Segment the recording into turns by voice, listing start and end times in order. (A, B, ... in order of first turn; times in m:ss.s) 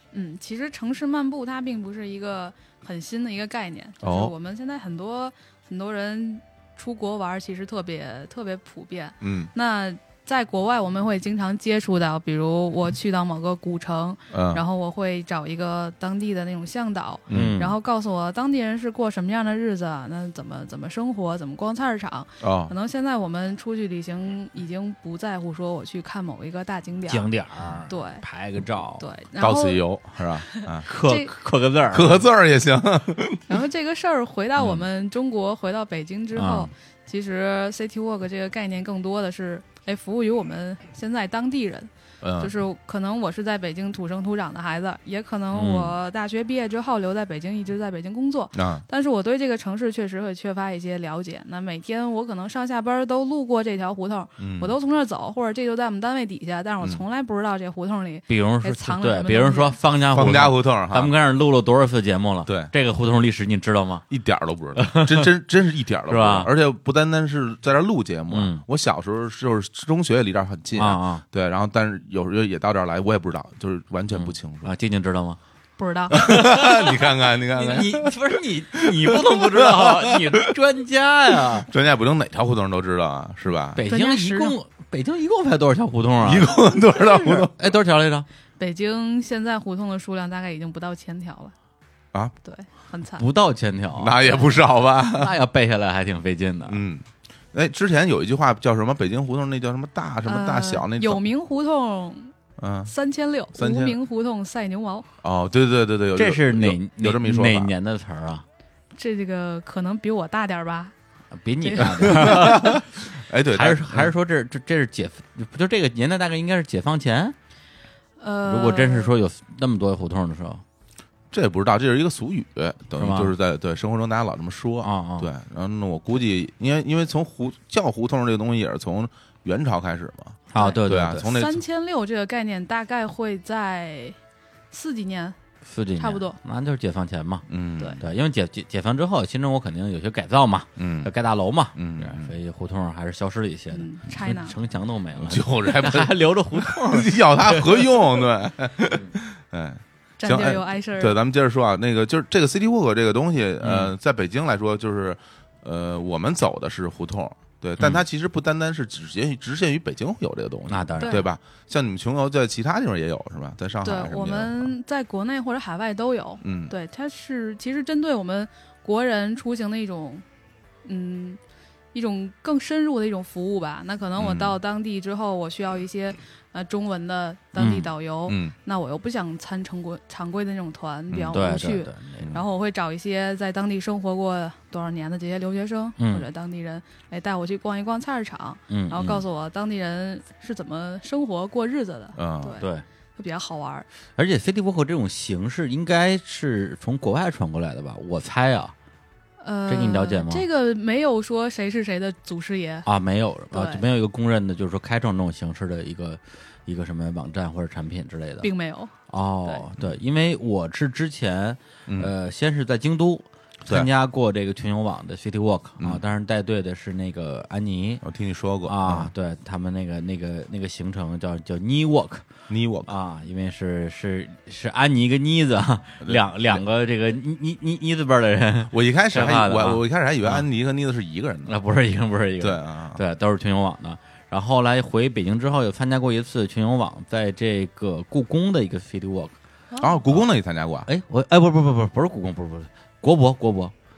0:00.1-0:27.3 A
0:04.0-0:04.3 B
0:09.2-0:09.5 B
0:14.3-0:14.6 B
0:17.3-0:17.6 B
0:17.3-0:17.7 C
0:22.4-0:22.7 B
0:27.1-0:29.0 C
0:27.9-0:28.2 A
0:29.0-0:31.3 A
0:29.4-0:30.8 B
0:30.9-0:32.2 C
0:31.9-0:33.6 B
0:33.5-0:59.8 A
0:34.6-0:34.8 B
0:36.4-0:36.7 C
0:42.2-0:42.5 B
0:45.5-0:45.9 C
0:48.5-0:48.8 B
0:54.4-0:54.7 B
0:58.3-1:04.0 C
1:00.1-1:01.1 B
1:04.1-1:14.7 B
1:04.8-1:05.3 C
1:06.1-1:06.5 C
1:08.3-1:08.6 C
1:10.8-1:11.2 C
1:14.1-1:15.4 C
1:15.8-1:16.1 A
1:16.1-1:16.9 C
1:16.1-1:20.4 B
1:17.6-1:21.7 C
1:21.5-1:23.8 B
1:23.8-1:26.5 C
1:23.9-1:24.6 A
1:26.2-1:27.5 B
1:27.5-1:28.3 C
1:28.6-1:31.5 A
1:32.4-1:33.2 A
1:33.2-1:34.2 C
1:34.0-1:35.3 B
1:35.1-1:36.8 C
1:36.7-1:41.2 B
1:40.2-1:42.3 A
1:42.6-1:42.9 B
1:42.9-1:45.1 A
1:43.6-1:44.0 B
1:45.2-1:47.7 B
1:46.2-1:48.4 C
1:49.0-1:50.9 A
1:51.4-1:52.8 C
1:51.6-1:52.6 A
1:51.8-1:54.1 B
1:53.5-1:57.4 C
1:58.2-1:59.1 A
1:58.4-2:00.6 C
2:01.3-2:11.6 B
2:03.0-2:03.3 C
2:04.8-2:05.3 C
2:10.5-2:11.3 C
2:10.6-2:14.2 A
2:14.7-2:15.4 A
2:15.6-2:17.5 C
2:16.0-2:16.4 A
2:17.5-2:18.0 B
2:18.0-2:28.0 C
2:20.8-2:21.1 B
2:21.8-2:22.3 B
2:23.7-2:24.6 A
2:25.2-2:44.7 B
2:30.2-2:31.2 A
2:33.6-2:33.9 C
2:40.7-2:41.2 C
2:41.0-2:41.3 A
2:43.8-2:50.2 A
2:46.4-2:46.7 B
2:50.8-2:51.4 A
2:51.9-3:13.9 A
2:54.2-2:54.6 B
2:57.6-2:57.9 C
2:58.3-2:58.5 B
3:01.1-3:01.4 B
3:01.3-3:02.3 C
3:06.0-3:06.2 C
3:08.7-3:09.2 C
3:12.2-3:12.6 B
3:14.2-3:18.7 C
3:19.4-3:22.9 A
3:19.7-3:20.5 C
3:22.9-3:28.5 C
3:23.5-3:23.8 A
3:28.4-3:29.6 A
3:29.1-3:38.0 C
3:31.9-3:32.1 B
3:38.0-3:39.1 B
3:38.6-3:42.3 C
3:42.5-3:42.9 B
3:42.9-3:50.4 C
3:46.0-3:46.6 B
3:48.7-3:51.5 B
3:51.5-3:59.4 C
3:52.4-3:53.0 B
3:59.7-4:00.0 A
3:59.8-4:00.9 B
4:00.9-4:03.7 C